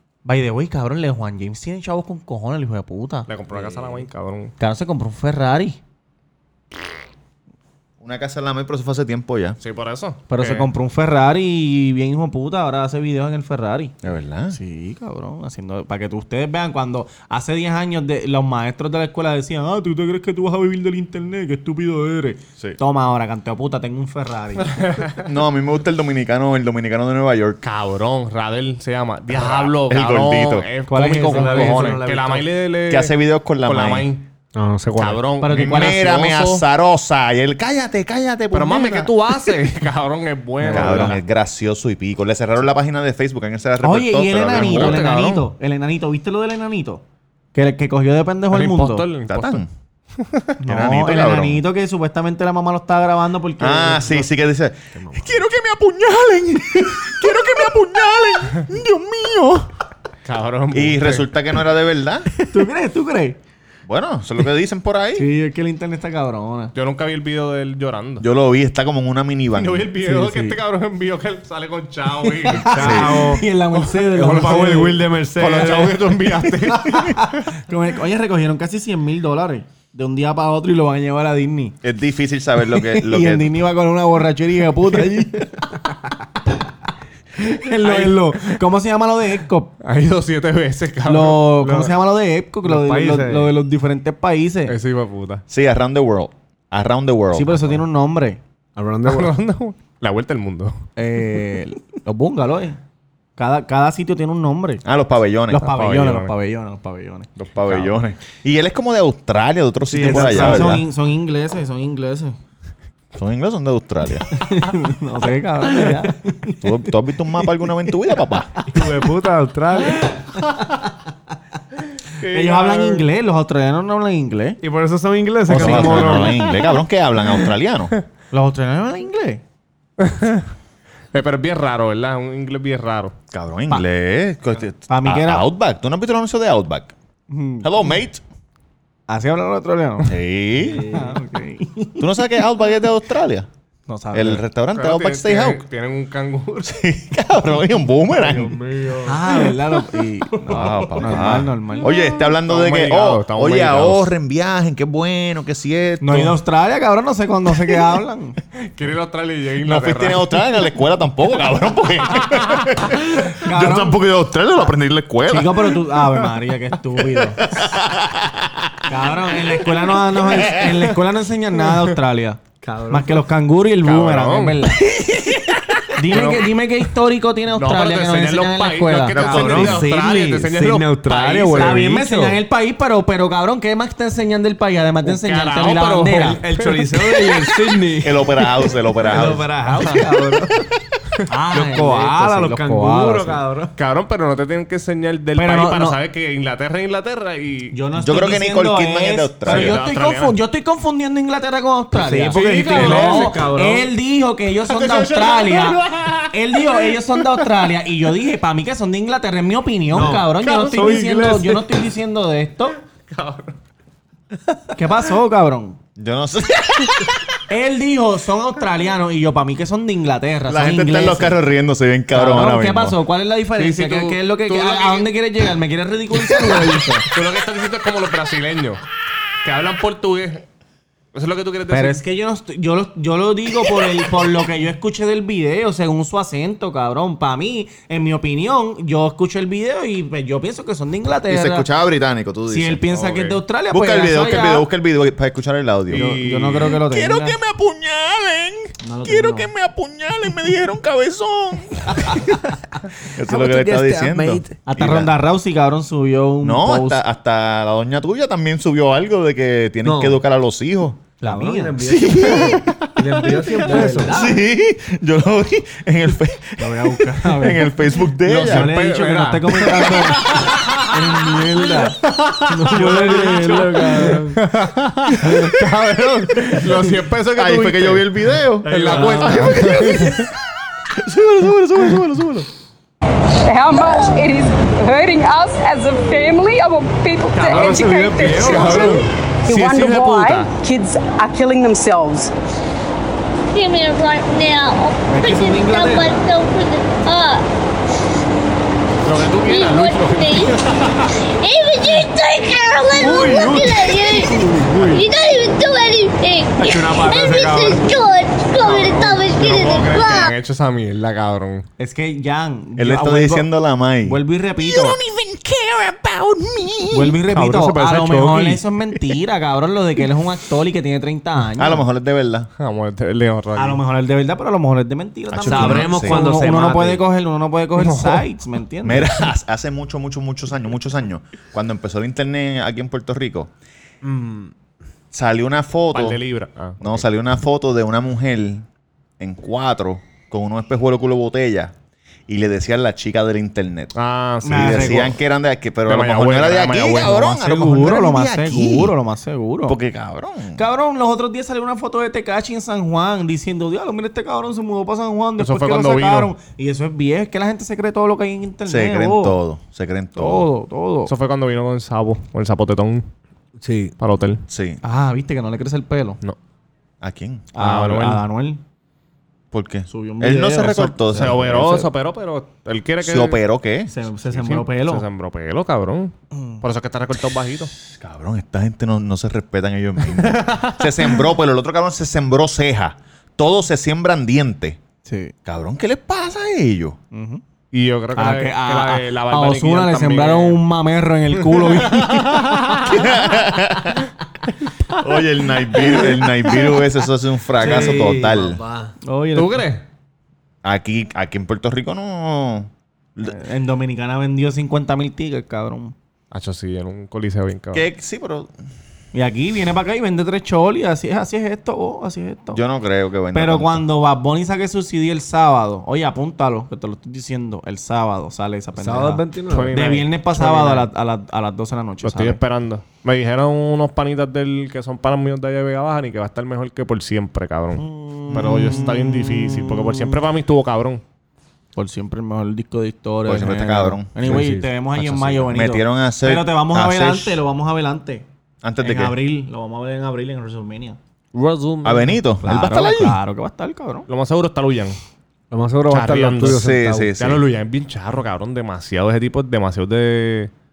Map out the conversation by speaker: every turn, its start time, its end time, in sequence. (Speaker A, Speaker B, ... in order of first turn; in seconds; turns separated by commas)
Speaker A: 0.2-3.3, Speaker B: 3.3-4.5, Speaker C: 3.5-4.0, Speaker A: 4.6-5.8, Speaker D: 8.0-9.6, Speaker B: 9.6-10.7, Speaker A: 10.3-13.9, Speaker D: 14.0-14.6, Speaker A: 14.5-24.8, Speaker B: 24.7-25.2, Speaker D: 25.2-27.6, Speaker B: 27.6-34.3, Speaker D: 29.3-30.7, Speaker C: 30.9-32.5, Speaker A: 30.9-32.0, Speaker D: 32.9-34.1, Speaker C: 34.6-35.2, Speaker B: 35.0-36.1, Speaker A: 35.4-36.6, Speaker D: 35.5-39.5, Speaker B: 38.5-41.2, Speaker C: 40.6-41.1, Speaker D: 40.7-45.1, Speaker A: 43.8-47.0, Speaker B: 44.5-45.5, Speaker A: 47.5-49.1, Speaker B: 48.5-49.6, Speaker D: 49.3-49.7, Speaker B: 50.2-50.5, Speaker A: 50.6-54.3, Speaker D: 50.7-51.6, Speaker D: 53.6-59.7, Speaker C: 55.0-55.3, Speaker B: 60.2-61.3, Speaker D: 60.7-62.3, Speaker A: 62.5-63.4, Speaker D: 63.9-65.3, Speaker A: 65.2-66.7, Speaker B: 66.7-68.3, Speaker D: 68.2-69.9, Speaker B: 69.5-73.0, Speaker A: 70.0-70.6, Speaker A: 72.5-75.0, Speaker C: 72.7-73.4, Speaker D: 72.8-73.2, Speaker B: 73.8-77.4, Speaker C: 74.2-76.4, Speaker A: 77.1-81.8, Speaker D: 81.8-83.6, Speaker A: 82.8-85.7, Speaker A: 87.4-89.8, Speaker C: 87.7-88.2, Speaker B: 89.8-91.9, Speaker A: 91.1-94.8, Speaker C: 92.7-93.5, Speaker B: 94.7-95.4, Speaker D: 95.5-97.8, Speaker A: 97.3-98.4, Speaker C: 98.8-99.4, Speaker B: 99.0-100.8, Speaker A: 101.0-102.8, Speaker A: 103.4-104.8, Speaker D: 104.8-105.7, Speaker A: 105.5-107.8, Speaker B: 105.6-106.3, Speaker D: 107.4-110.8, Speaker C: 109.9-110.8, Speaker A: 110.0-112.4, Speaker D: 113.2-114.4, Speaker A: 114.4-116.6, Speaker D: 116.6-118.6, Speaker C: 118.7-120.3, Speaker A: 120.4-120.8, Speaker B: 122.2-123.0, Speaker A: 122.2-124.6, Speaker C: 124.6-126.6, Speaker D: 125.5-127.9, Speaker A: 125.6-126.3, Speaker B: 125.6-125.9, Speaker A: 128.3-129.4, Speaker B: 130.0-130.5, Speaker B: 131.1-133.1, Speaker D: 133.3-136.9, Speaker A: 134.9-135.5, Speaker A: 137.3-137.7, Speaker D: 137.6-138.2, Speaker A: 139.1-140.2, Speaker D: 140.0-140.9, Speaker C: 140.6-141.2, Speaker A: 140.9-142.3, Speaker D: 142.0-143.5, Speaker A: 143.9-144.4, Speaker D: 144.1-145.7, Speaker B: 144.7-146.8, Speaker D: 146.6-148.6, Speaker C: 148.1-149.4, Speaker A: 149.0-152.1, Speaker D: 150.5-156.4, Speaker B: 152.4-154.1, Speaker A: 156.0-158.4, Speaker B: 158.7-160.3, Speaker D: 159.6-165.8, Speaker B: 162.2-162.7, Speaker A: 163.4-164.0, Speaker A: 165.3-167.4, Speaker D: 167.3-168.9, Speaker A: 168.9-174.8, Speaker C: 172.6-173.2, Speaker B: 173.8-174.6, Speaker D: 175.0-175.6, Speaker A: 175.9-179.8, Speaker B: 176.1-176.5, Speaker B: 177.6-181.8, Speaker C: 179.2-182.4, Speaker A: 181.5-186.4, Speaker B: 185.0-187.4, Speaker C: 186.2-190.7, Speaker D: 188.0-189.5, Speaker B: 189.8-190.1, Speaker A: 191.3-193.4, Speaker C: 191.5-193.7, Speaker B: 193.8-197.8, Speaker A: 195.4-196.0, Speaker A: 197.7-212.8, Speaker D: 198.0-199.8, Speaker B: 199.4-200.4, Speaker C: 202.0-203.9, Speaker B: 202.3-203.5, Speaker B: 204.7-206.9, Speaker C: 209.9-211.8, Speaker B: 213.0-213.6, Speaker A: 214.7-215.8, Speaker D: 216.0-217.3, Speaker A: 217.5-221.4, Speaker D: 220.5-223.0, Speaker A: 222.1-227.1, Speaker B: 223.6-225.1, Speaker D: 226.2-226.6, Speaker B: 227.1-228.8, Speaker B: 229.4-230.4, Speaker B: 231.1-232.0, Speaker A: 231.7-241.7, Speaker D: 241.3-246.1, Speaker A: 242.5-244.7, Speaker B: 245.9-246.8, Speaker A: 245.9-247.4, Speaker D: 246.7-252.4, Speaker A: 248.8-249.5, Speaker A: 251.9-252.4, Speaker D: 253.0-255.1, Speaker C: 253.2-254.6, Speaker A: 254.7-257.0, Speaker D: 256.4-261.0, Speaker C: 259.8-260.2, Speaker A: 261.2-261.8, Speaker C: 261.2-264.4, Speaker D: 261.8-268.8, Speaker A: 263.7-264.4, Speaker A: 266.6-272.0, Speaker B: 268.3-271.0, Speaker C: 271.1-271.9, Speaker B: 272.0-280.3, Speaker C: 272.5-274.4, Speaker A: 272.7-274.3, Speaker D: 277.3-280.3, Speaker C: 278.6-279.9, Speaker D: 280.9-282.5, Speaker E: 283.4-292.3, Speaker C: 287.3-289.1, Speaker B: 288.2-290.5, Speaker F: 293.5-297.4, Speaker A: 295.0-296.2, Speaker B: 299.0-301.2, Speaker F: 299.4-300.6, Speaker F: 301.4-310.4, Speaker C: 303.0-305.0, Speaker C: 306.6-307.9, Speaker B: 308.6-311.7, Speaker A: 311.8-313.5, Speaker D: 312.8-317.2, Speaker A: 314.0-315.0, Speaker A: 316.9-321.9, Speaker B: 317.3-318.6, Speaker D: 321.6-322.5, Speaker B: 322.6-323.8, Speaker A: 323.6-329.1, Speaker D: 325.3-326.2, Speaker C: 325.4-327.0, Speaker B: 327.8-328.2, Speaker D: 328.8-333.5, Speaker C: 334.0-334.5, Speaker D: 335.1-336.2, Speaker B: 335.9-337.0, Speaker D: 336.8-338.7, Speaker D: 339.2-341.7, Speaker D: 342.3-343.9, Speaker B: 344.0-345.1, Speaker A: 344.4-345.1, Speaker D: 344.5-348.9, Speaker B: 345.9-347.2, Speaker A: 347.1-349.8, Speaker D: 349.7-350.6, Speaker A: 350.6-359.4, Speaker B: 355.4-356.3, Speaker D: 358.7-360.5, Speaker A: 360.1-361.1, Speaker B: 361.1-363.1, Speaker C: 363.6-363.9, Speaker B: 364.0-364.4, Speaker D: 364.5-364.8, Speaker A: 364.8-366.2, Speaker D: 367.0-367.5, Speaker A: 367.6-368.6, Speaker B: 367.6-368.2, Speaker D: 369.5-371.9, Speaker A: 369.9-371.2, Speaker B: 371.1-373.4, Speaker D: 373.0-373.9, Speaker A: 373.9-375.1, Speaker B: 374.3-377.7, Speaker A: 376.3-376.6, Speaker D: 377.9-384.8, Speaker B: 380.5-380.8, Speaker A: 385.1-385.3, Speaker D: 385.4-387.0, Speaker A: 387.1-387.4, Speaker B: 387.7-390.6, Speaker A: 388.2-392.6, Speaker B: 391.5-393.0, Speaker D: 392.7-394.1, Speaker D: 394.9-398.6, Speaker A: 395.7-396.8, Speaker C: 397.6-398.9, Speaker A: 397.6-398.1, Speaker A: 399.0-399.7, Speaker B: 399.4-399.8, Speaker D: 400.6-403.3, Speaker A: 403.2-405.9, Speaker B: 406.3-407.9, Speaker D: 407.7-408.5, Speaker A: 409.1-412.6, Speaker D: 412.5-413.8, Speaker A: 413.3-422.4, Speaker C: 418.8-419.8, Speaker B: 419.5-420.9, Speaker B: 422.0-431.0, Speaker A: 427.8-428.8, Speaker D: 428.3-429.9, Speaker A: 431.8-438.3, Speaker D: 433.2-434.1, Speaker C: 434.2-434.7, Speaker D: 435.0-437.4, Speaker D: 438.6-439.2, Speaker A: 438.8-441.0, Speaker B: 441.3-442.2, Speaker D: 441.8-443.2, Speaker A: 442.4-444.1, Speaker B: 444.1-445.0, Speaker C: 445.5-447.1, Speaker B: 445.9-446.7, Speaker D: 446.4-447.4, Speaker B: 447.2-450.5